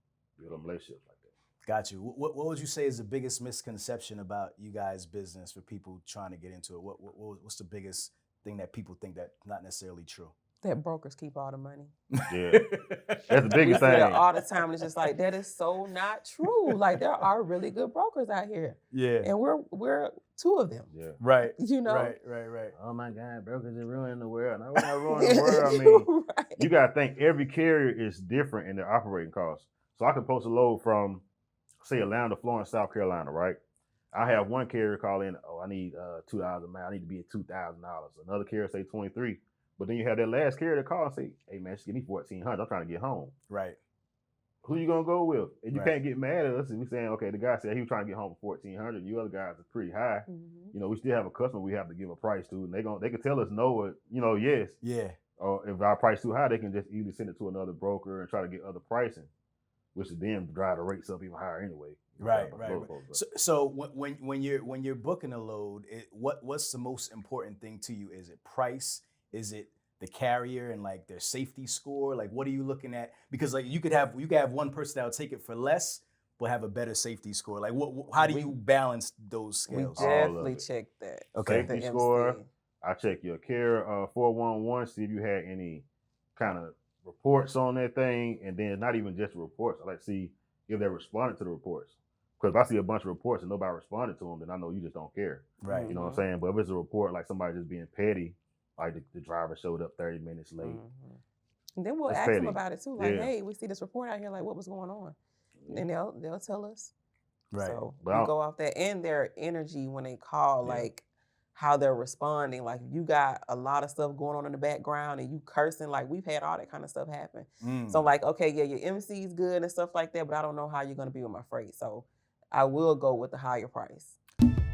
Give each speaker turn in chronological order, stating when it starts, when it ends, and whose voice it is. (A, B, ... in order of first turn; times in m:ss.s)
0:00.4-0:01.3 A
0:01.6-0:10.3 B
0:10.6-0:11.9 C
0:12.2-0:14.2 B
0:12.3-0:12.7 A
0:13.3-0:14.2 A
0:13.6-0:20.9 C
0:18.9-0:19.3 B
0:20.9-0:21.2 A
0:21.2-0:22.7 B
0:21.6-0:22.2 C
0:22.7-0:31.2 A
0:24.8-0:26.6 C
0:31.8-0:33.6 A
0:34.1-0:43.3 A
0:43.5-0:43.8 B
0:44.6-0:54.8 A
0:50.3-0:50.7 C
0:54.8-0:55.2 B
0:55.4-0:59.3 A
0:59.9-1:03.2 A
1:02.2-1:20.3 B
1:18.1-1:18.6 C
1:19.7-1:22.5 C
1:20.0-1:20.6 A
1:21.3-1:21.7 B
1:21.4-1:25.8 A
1:26.4-1:40.8 A
1:35.6-1:36.0 B
1:35.7-1:36.2 C
1:40.6-1:41.2 C
1:41.8-1:45.2 C
1:42.1-1:43.3 A
1:45.6-1:45.8 A
1:45.7-1:46.9 C
1:47.5-1:47.8 B
1:47.6-2:04.2 C
1:48.0-1:48.3 A
1:50.6-1:50.9 A
1:57.6-1:58.1 B